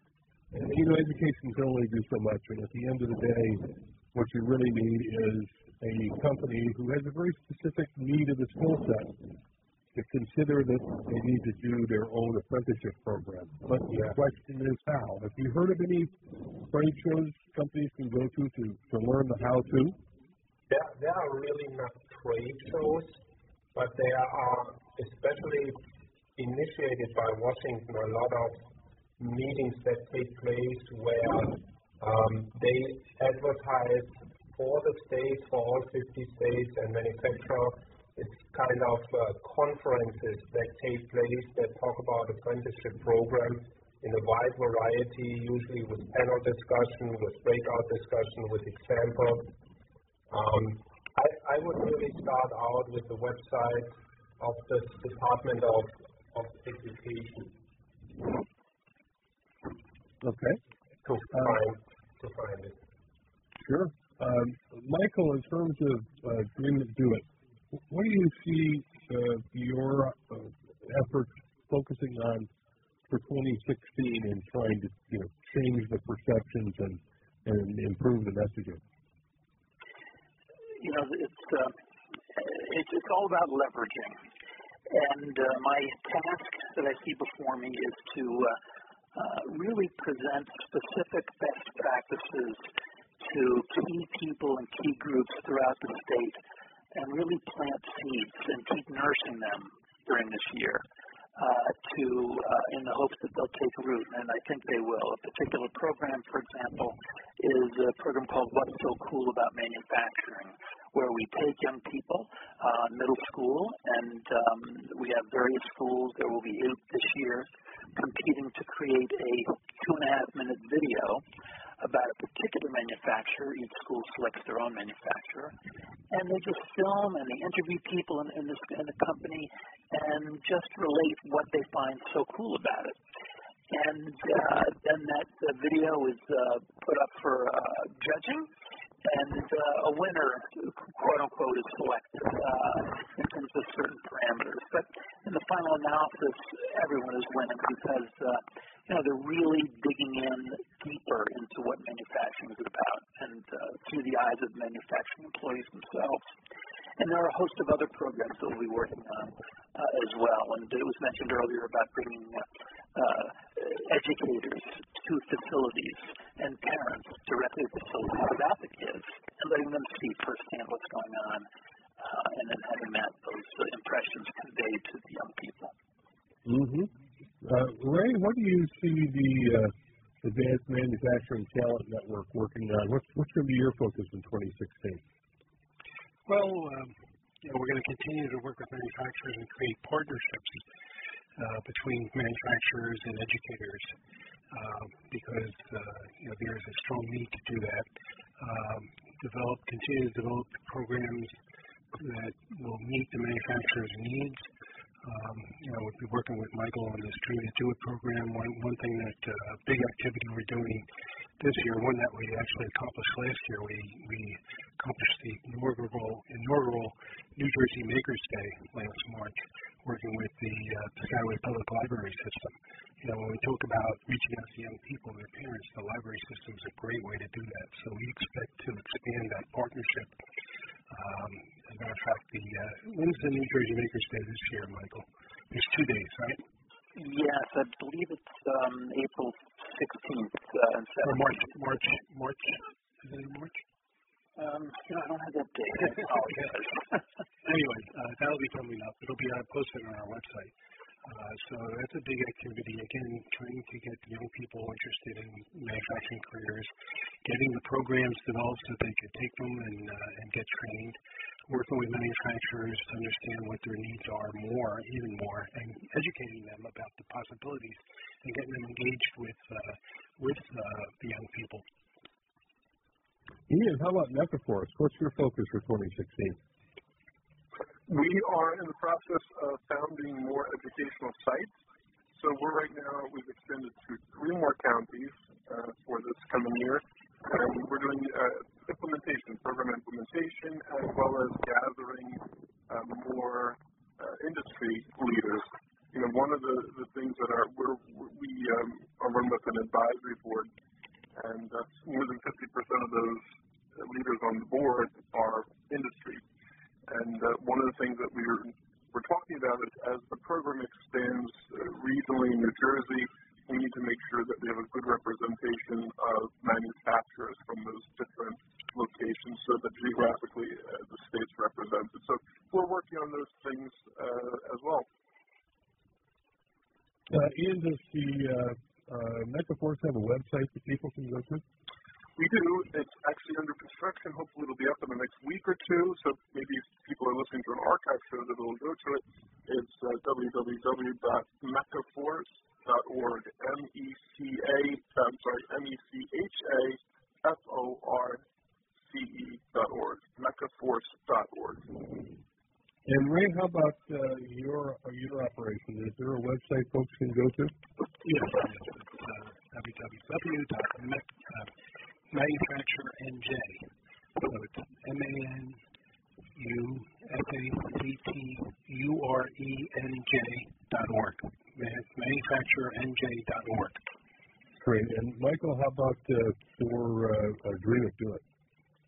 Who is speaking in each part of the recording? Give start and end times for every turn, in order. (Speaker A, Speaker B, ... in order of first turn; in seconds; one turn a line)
Speaker A: 0.5-9.2
Speaker A: 9.9-20.0
Speaker B: 13.9-14.2
Speaker B: 20.7-23.2
Speaker B: 23.7-25.8
Speaker B: 26.4-28.6
Speaker B: 29.2-49.5
Speaker B: 50.3-57.5
Speaker A: 60.2-60.6
Speaker B: 61.0-62.8
Speaker A: 63.6-72.5
Speaker A: 73.1-78.8
Speaker C: 80.8-81.8
Speaker C: 82.3-84.2
Speaker C: 84.9-88.6
Speaker C: 89.2-92.7
Speaker C: 93.2-96.4
Speaker C: 96.9-100.8
Speaker C: 101.4-121.2
Speaker C: 121.8-125.5
Speaker C: 126.1-133.0
Speaker C: 133.7-138.5
Speaker C: 139.1-156.2
Speaker C: 157.0-171.5
Speaker C: 172.0-175.7
Speaker A: 176.4-176.9
Speaker A: 177.4-185.0
Speaker D: 186.3-190.6
Speaker D: 191.4-193.9
Speaker D: 194.5-201.4
Speaker D: 201.9-204.5
Speaker D: 205.0-210.9
Speaker D: 211.4-230.2
Speaker D: 230.9-236.4
Speaker C: 236.9-241.5
Speaker D: 241.0-243.6
Speaker C: 244.4-246.9
Speaker D: 247.4-250.5
Speaker D: 251.1-256.7
Speaker D: 257.2-271.6
Speaker A: 273.5-276.4
Speaker E: 277.9-281.6
Speaker E: 282.1-300.5
Speaker E: 301.1-306.2
Speaker E: 306.9-324.9
Speaker A: 327.1-331.4
Speaker E: 332.2-348.2
Speaker E: 348.8-351.8
Speaker A: 352.9-357.5
Speaker D: 358.0-361.5
Speaker D: 362.1-363.7
Speaker D: 364.2-365.6
Speaker D: 366.4-373.8
Speaker A: 374.6-378.2